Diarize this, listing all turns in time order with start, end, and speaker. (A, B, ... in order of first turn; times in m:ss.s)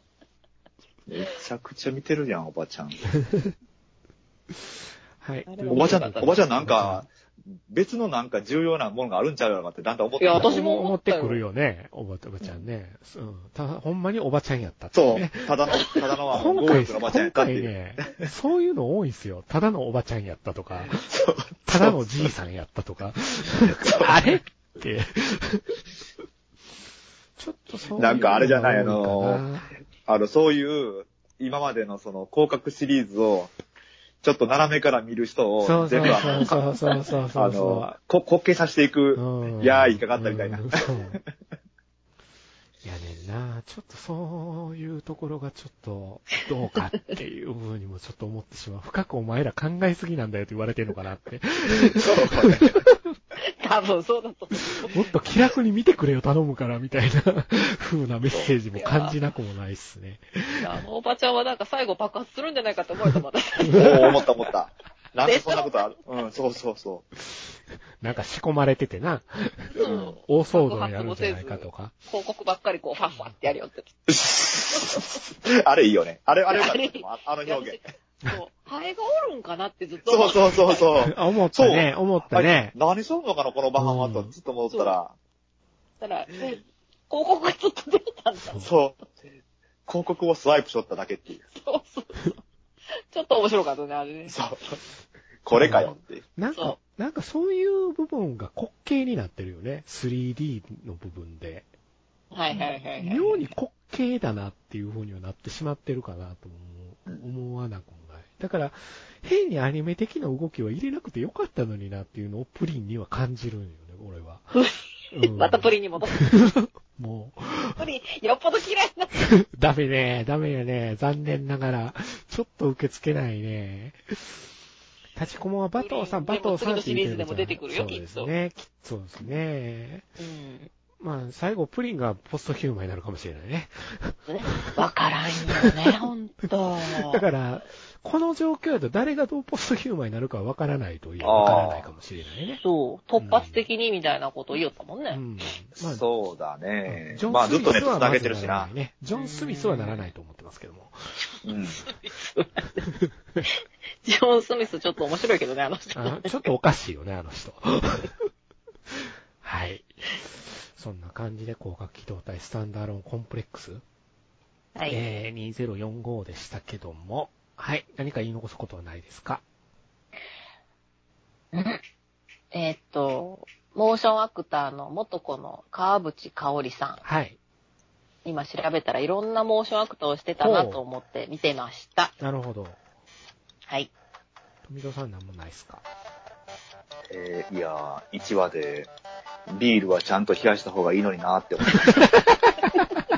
0:01.1-0:03.0 A
0:03.2-0:03.5 B
0:04.7-0:07.1 B
0:05.5-0:06.4 C
0:05.7-0:10.6 A
0:10.2-0:11.4 C
0:10.3-0:15.5 B
0:14.9-0:18.2 A
0:16.3-0:21.1 B
0:21.0-0:22.3 A
0:21.6-0:25.7 B
0:23.7-0:24.2 A
0:27.4-0:29.7 B
0:28.0-0:29.4 A
0:30.0-0:33.5 A
0:34.2-0:36.6 A
0:35.6-0:38.0 B
0:36.1-0:37.0 C
0:37.3-0:41.2 A
0:39.2-0:41.2 B
0:42.8-0:53.1 B
0:51.9-0:52.8 A
0:53.5-0:55.1 C
0:54.8-1:00.6 B
0:58.7-0:59.1 C
1:00.6-1:04.2 C
1:03.7-1:07.0 A
1:05.2-1:05.7 C
1:08.0-1:11.9 B
1:09.7-1:13.9 C
1:09.8-1:10.2 A
1:14.1-1:17.8 A
1:14.7-1:15.2 C
1:16.5-1:20.9 C
1:20.0-1:25.1 A
1:21.0-1:22.7 B
1:23.8-1:24.3 B
1:26.0-1:28.7 C
1:28.4-1:28.7 B
1:28.6-1:29.0 A
1:29.9-1:31.4 A
1:31.6-1:32.4 C
1:33.1-1:34.3 C
1:34.3-1:34.8 A
1:35.4-1:36.2 A
1:35.6-1:41.7 B
1:42.3-1:43.4 C
1:43.0-1:54.5 B
1:54.5-1:56.3 C
1:55.1-1:57.8 B
1:57.8-1:59.1 C
1:59.2-2:04.4 B
2:05.2-2:10.1 B
2:05.8-2:08.3 C
2:10.2-2:10.7 C
2:11.0-2:14.8 B
2:14.3-2:17.2 C
2:15.5-2:16.0 B
2:17.0-2:22.6 B
2:21.2-2:21.9 A
2:22.6-2:25.2 C
2:23.2-2:23.6 B
2:25.1-2:26.0 B
2:25.8-2:28.7 A
2:26.9-2:31.1 B
2:29.1-2:30.1 C
2:31.4-2:31.8 A
2:31.7-2:32.9 C
2:32.9-2:33.4 B
2:33.5-2:36.3 C
2:36.0-2:38.1 B
2:38.9-2:43.8 B
2:44.7-2:45.0 C
2:44.9-2:49.4 B
2:51.5-2:51.8 C
2:52.5-2:57.0 C
2:57.0-2:57.4 B
2:58.2-3:02.1 C
3:00.4-3:00.8 B
3:02.2-3:02.8 B
3:04.6-3:05.8 B
3:07.1-3:08.9 A
3:09.5-3:12.0 A
3:12.0-3:12.4 B